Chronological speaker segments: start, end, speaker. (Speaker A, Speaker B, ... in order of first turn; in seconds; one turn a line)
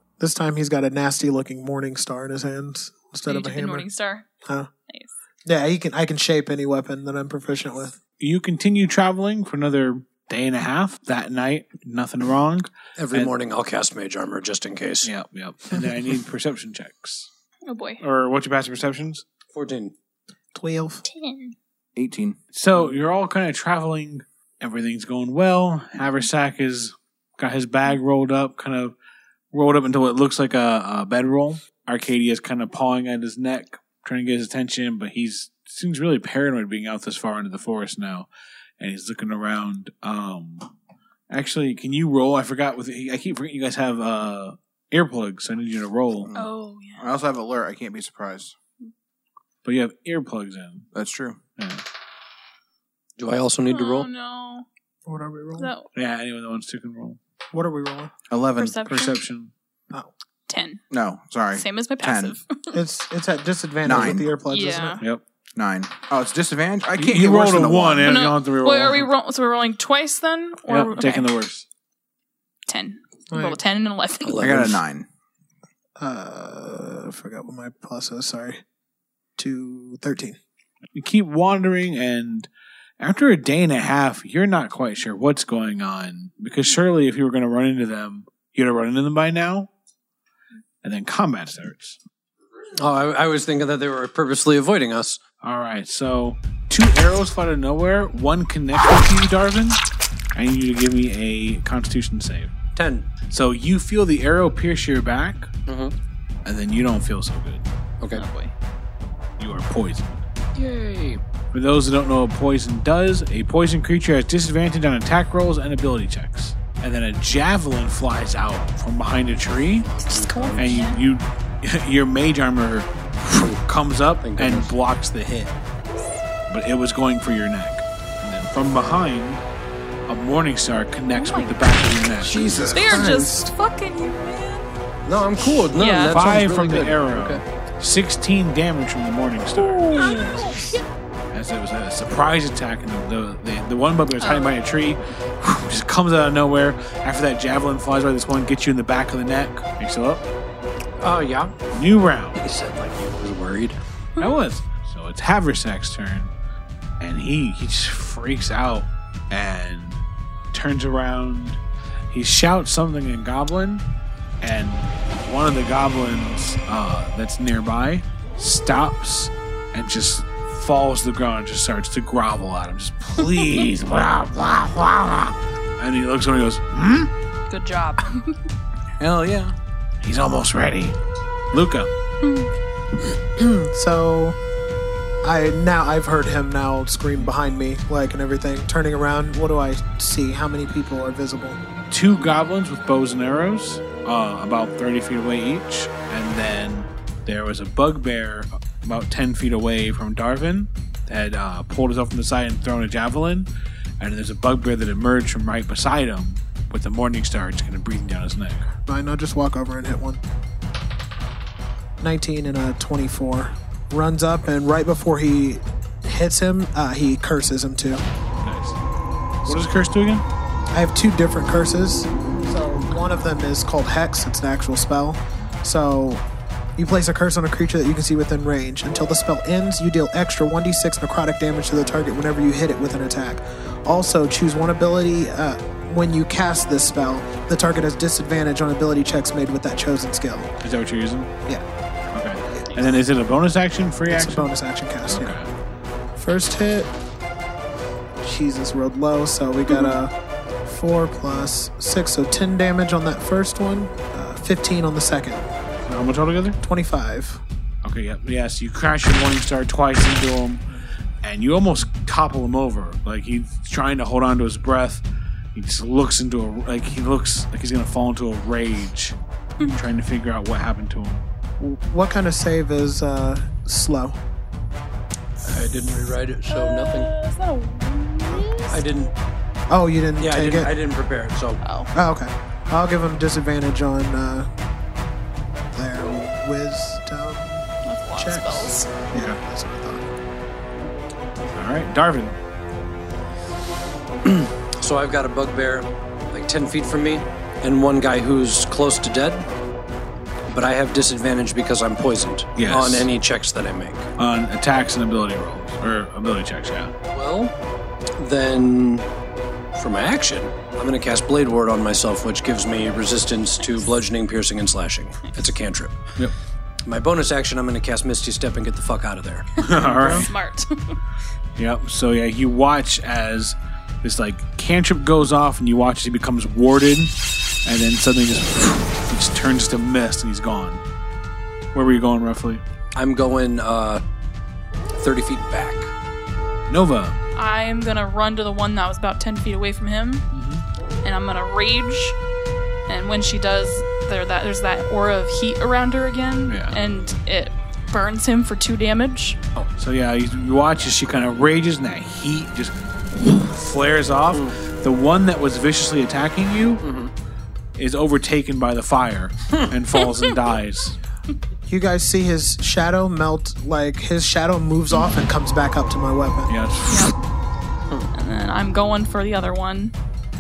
Speaker A: 0.2-3.9
Speaker B: 3.3-4.3
Speaker A: 4.5-4.7
Speaker A: 5.5-8.0
Speaker C: 8.2-13.3
Speaker D: 13.0-15.1
Speaker C: 15.0-17.3
Speaker B: 17.7-18.0
Speaker C: 18.0-19.2
Speaker D: 19.5-19.9
Speaker A: 20.6-21.0
Speaker B: 21.0-21.6
Speaker E: 22.0-22.4
Speaker C: 22.5-28.9
Speaker C: 29.5-38.3
Speaker C: 38.8-40.7
Speaker C: 41.3-46.3
Speaker E: 46.2-48.5
Speaker B: 46.3-47.0
Speaker C: 49.6-50.9
Speaker E: 50.9-51.4
Speaker C: 51.6-51.8
Speaker D: 53.2-54.1
Speaker B: 53.7-54.7
Speaker A: 55.1-55.7
Speaker B: 55.6-55.9
Speaker C: 56.0-57.2
Speaker A: 57.5-58.1
Speaker E: 58.3-58.9
Speaker B: 58.6-59.2
Speaker C: 58.9-59.5
Speaker B: 60.5-60.8
Speaker E: 60.9-62.4
Speaker B: 61.5-62.8
Speaker A: 62.7-65.0
Speaker E: 63.8-64.3
Speaker B: 64.5-65.0
Speaker E: 65.6-68.2
Speaker C: 67.0-69.1
Speaker B: 68.0-71.3
Speaker C: 70.7-71.7
Speaker B: 72.7-74.4
Speaker A: 73.3-73.6
Speaker D: 74.2-74.8
Speaker E: 74.4-75.1
Speaker A: 76.0-78.6
Speaker A: 79.4-80.4
Speaker C: 80.9-82.5
Speaker C: 83.0-89.7
Speaker C: 90.8-92.0
Speaker D: 92.8-95.2
Speaker C: 95.4-99.8
Speaker C: 100.3-102.5
Speaker D: 102.8-103.1
Speaker C: 103.3-105.5
Speaker D: 105.7-105.9
Speaker C: 106.5-107.7
Speaker D: 108.0-108.3
Speaker B: 108.1-108.5
Speaker C: 109.4-110.2
Speaker D: 110.5-111.2
Speaker C: 111.5-119.9
Speaker D: 120.0-120.8
Speaker B: 120.0-121.0
Speaker C: 120.6-125.5
Speaker D: 124.2-124.7
Speaker C: 126.5-129.4
Speaker C: 130.1-132.6
Speaker B: 131.1-131.7
Speaker A: 132.2-133.5
Speaker B: 132.2-134.7
Speaker D: 135.1-137.4
Speaker B: 135.6-136.3
Speaker C: 136.1-140.2
Speaker B: 139.6-140.8
Speaker C: 141.3-150.2
Speaker B: 144.2-144.5
Speaker D: 151.0-151.6
Speaker C: 151.7-152.4
Speaker D: 152.4-153.8
Speaker C: 154.2-156.3
Speaker C: 157.0-160.0
Speaker C: 160.5-161.6
Speaker C: 162.1-163.8
Speaker C: 164.4-177.1
Speaker B: 177.5-178.3
Speaker E: 179.0-179.6
Speaker C: 180.0-181.0
Speaker C: 181.5-181.9
Speaker B: 182.2-182.5
Speaker A: 183.4-184.4
Speaker A: 185.2-191.6
Speaker C: 191.9-203.5
Speaker C: 204.0-208.7
Speaker A: 208.9-210.2
Speaker A: 212.0-218.1
Speaker C: 218.4-218.8
Speaker C: 219.4-220.2
Speaker A: 220.7-226.2
Speaker A: 226.8-240.5
Speaker C: 240.6-241.3
Speaker C: 242.1-244.5
Speaker A: 244.1-245.4
Speaker C: 245.1-245.5
Speaker A: 246.2-246.9
Speaker A: 248.2-250.1
Speaker A: 250.7-255.5
Speaker C: 255.9-256.6
Speaker A: 256.6-257.4
Speaker C: 257.8-260.6
Speaker C: 261.2-265.0
Speaker C: 265.5-271.2
Speaker A: 271.6-274.2
Speaker D: 275.4-277.1
Speaker B: 276.5-278.8
Speaker D: 278.7-279.1
Speaker A: 279.7-280.7
Speaker D: 280.2-281.6
Speaker B: 281.6-281.9
Speaker A: 281.9-284.5
Speaker A: 285.7-290.1
Speaker B: 287.9-288.9
Speaker C: 289.1-289.4
Speaker C: 291.6-292.4
Speaker D: 294.2-299.5
Speaker D: 300.5-304.1
Speaker C: 302.6-303.1
Speaker C: 304.2-306.9
Speaker D: 307.1-307.5
Speaker D: 308.2-309.1
Speaker D: 309.8-316.0
Speaker D: 316.9-319.5
Speaker C: 319.6-320.3
Speaker B: 319.6-321.0
Speaker C: 321.6-330.8
Speaker C: 331.7-332.6
Speaker D: 332.9-334.0
Speaker D: 334.9-335.9
Speaker C: 336.7-337.2
Speaker B: 337.4-340.3
Speaker C: 340.3-340.6
Speaker B: 341.0-342.2
Speaker B: 342.9-349.4
Speaker C: 346.5-346.8
Speaker C: 349.8-356.8
Speaker D: 354.3-354.6
Speaker D: 356.8-357.1
Speaker C: 357.8-361.0
Speaker A: 361.7-366.5
Speaker C: 366.5-367.2
Speaker B: 366.9-367.1
Speaker B: 368.1-369.9